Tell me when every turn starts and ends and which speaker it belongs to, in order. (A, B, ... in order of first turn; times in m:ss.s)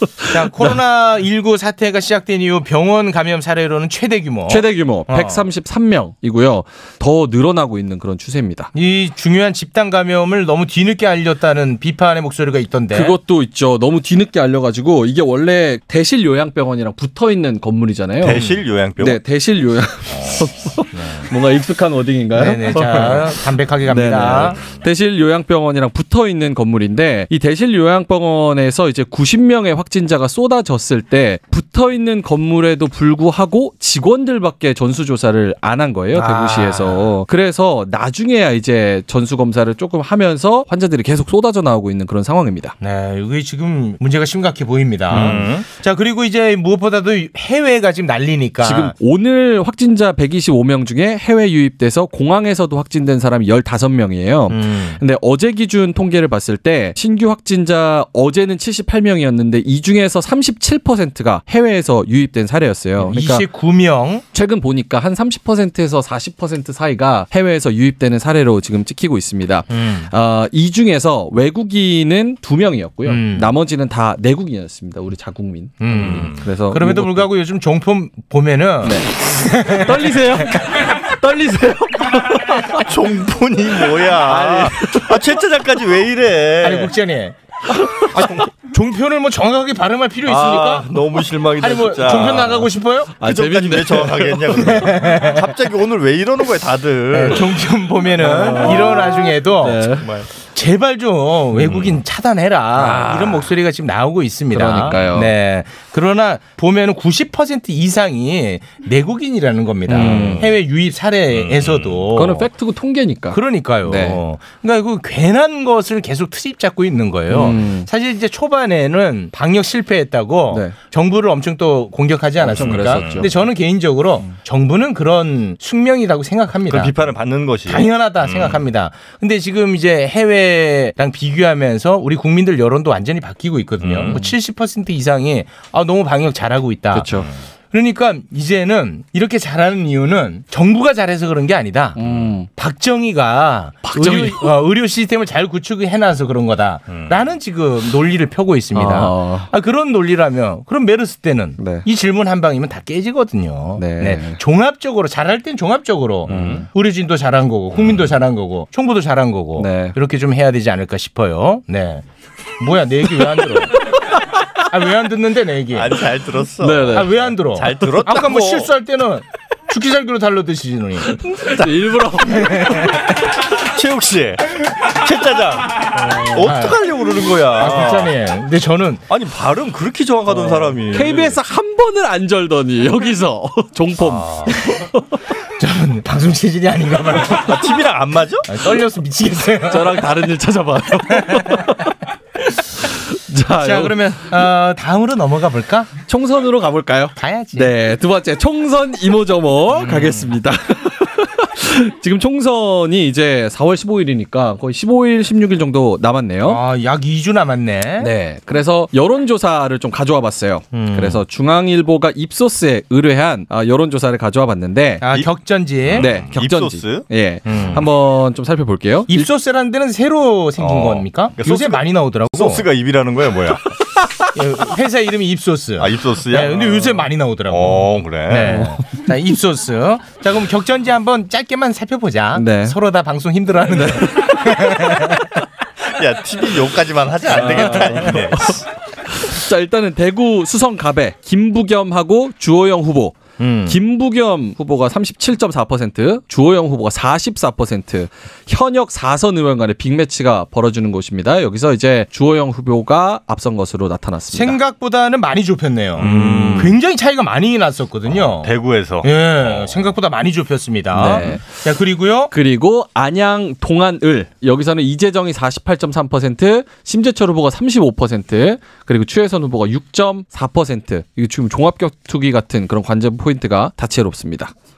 0:00.2-0:00.7 A
0:00.2-0:05.4 B
0:04.5-0:08.7 A
0:08.7-0:13.2 B
0:12.9-0:18.4 A
0:18.2-0:19.2 C
0:18.3-0:18.6 B
0:19.0-0:42.7 A
0:20.1-0:20.5 C
0:22.3-0:24.6 B
0:36.1-0:37.1 B
0:42.8-0:48.9 B
0:45.1-0:45.7 C
0:45.2-0:45.4 A
0:48.6-1:03.4 A
0:54.5-0:55.0 B
1:03.0-1:04.2 B
1:04.3-1:17.3 A
1:09.7-1:10.1 B
1:13.0-1:13.5 B
1:15.8-1:20.6 B
1:15.9-1:16.5 C
1:18.8-1:22.8 A
1:22.7-1:26.9 C
1:24.2-1:24.8 B
1:24.8-1:25.1 A
1:26.6-1:27.3 B
1:27.7-1:28.2 A
1:28.1-1:30.9 B
1:30.2-1:37.6 C
1:31.6-1:33.1 B
1:33.2-1:34.7 A
1:34.6-1:35.4 B
1:37.1-1:39.9 B
1:38.2-1:40.1 A
1:38.4-1:39.0 C
1:40.0-1:40.3 C
1:40.5-1:52.5 B
1:41.6-1:42.0 C
1:42.8-1:43.5 A
1:44.5-1:45.3 A
1:49.9-1:50.5 A
1:50.0-1:50.5 C
1:51.3-1:52.1 C
1:52.1-1:54.2 A
1:53.3-2:06.9 B
1:57.3-1:57.9 A
2:02.4-2:03.4 A
2:02.5-2:03.3 C
2:06.7-2:08.6 C
2:07.7-2:17.1 B
2:13.8-2:14.2 C
2:16.9-2:17.3 A
2:17.7-2:42.0 B
2:22.0-2:22.5 A
2:22.0-2:22.3 C
2:23.8-2:24.5 A
2:26.9-2:27.2 C
2:28.7-2:29.5 A
2:31.6-2:31.8 A
2:33.8-2:34.4 A
2:36.2-2:36.6 C
2:36.3-2:36.6 A
2:39.6-2:40.0 A
2:42.6-2:43.9 B
2:44.6-2:46.1 B
2:45.7-2:48.7 C
2:46.6-2:47.1 A
2:46.9-2:51.2 B
2:51.2-2:53.0 A
2:52.4-2:53.0 B
2:53.5-2:58.1 C
2:56.0-2:56.4 A
2:56.4-2:56.8 B
2:57.6-2:59.0 B
2:59.1-3:01.4 C
3:00.3-3:05.0 A
3:04.0-3:04.6 C
3:05.6-3:07.7 B
3:07.3-3:08.6 C
3:08.5-3:10.1 B
3:09.7-3:12.0 A
3:11.2-3:11.8 B
3:12.9-3:14.0 A
3:13.6-3:15.9 B
3:16.1-3:26.6 A
3:17.2-3:17.7 B
3:19.8-3:20.2 B
3:26.4-3:28.1 B
3:28.0-3:35.0 A
3:30.7-3:31.2 B
3:35.0-3:36.1 B
3:35.8-3:37.8 C
3:36.0-3:39.3 A
3:37.5-3:37.8 B
3:39.1-3:42.6 B
3:40.6-3:43.6 C
3:44.3-3:55.2 B
3:45.8-3:48.7 C
3:52.3-3:52.8 A
3:53.7-3:55.2 A
3:55.8-3:58.6 C
3:57.3-4:14.6 A
3:57.4-3:58.0 B
4:03.4-4:03.8 C
4:14.3-4:22.3 B
4:16.0-4:16.8 C
4:16.0-4:16.7 A
4:18.4-4:19.8 C
4:20.9-4:21.4 A
4:22.3-4:34.5 A